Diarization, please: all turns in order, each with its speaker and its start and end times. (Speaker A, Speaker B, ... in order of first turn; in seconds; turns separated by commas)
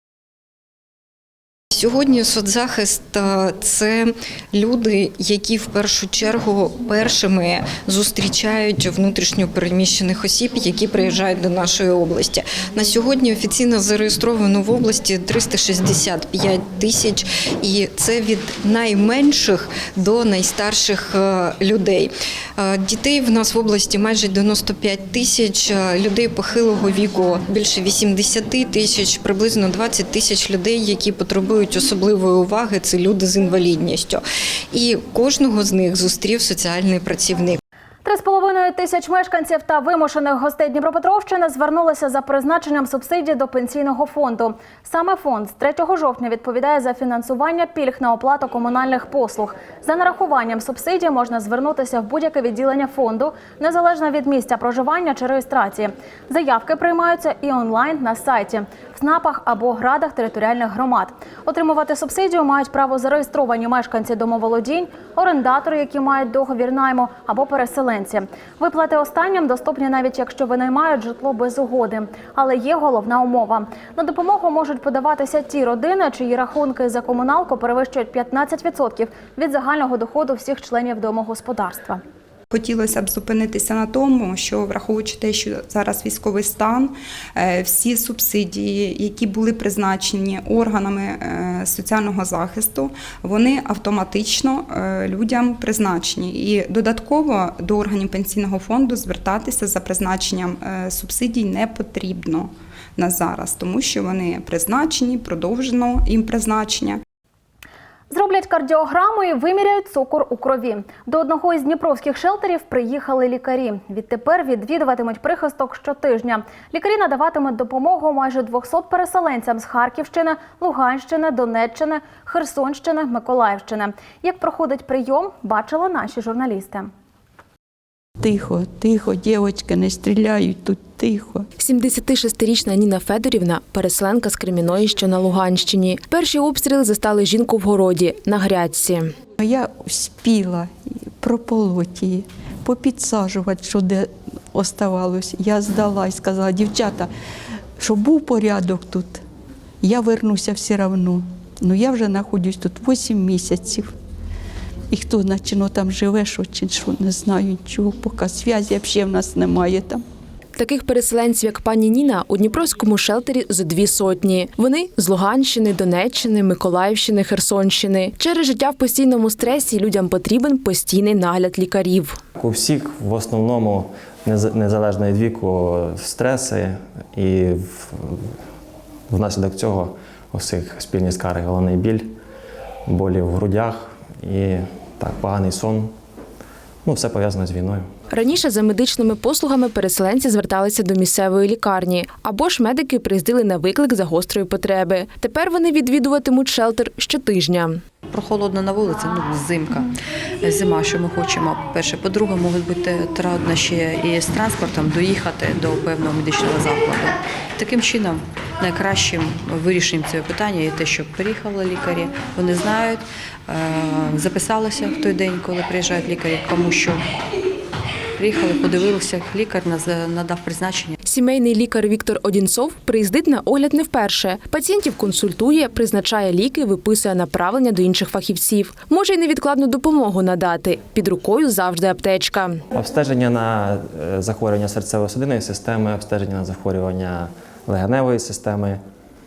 Speaker A: 1.7-37.6, Speaker B: 38.0-82.0, Speaker C: 82.5-107.0, Speaker B: 108.1-126.9, Speaker D: 128.2-131.5, Speaker E: 131.6-139.1, Speaker D: 139.4-147.1, Speaker D: 147.8-149.2, Speaker D: 149.8-153.9, Speaker D: 154.9-160.0, Speaker E: 160.6-172.2, Speaker F: 172.4-178.3, Speaker F: 179.1-182.1, Speaker F: 182.8-185.9, Speaker F: 186.8-187.9, Speaker E: 188.1-197.8, Speaker G: 198.1-217.1, Speaker G: 218.2-221.0, Speaker E: 221.0-232.6, Speaker F: 232.7-238.8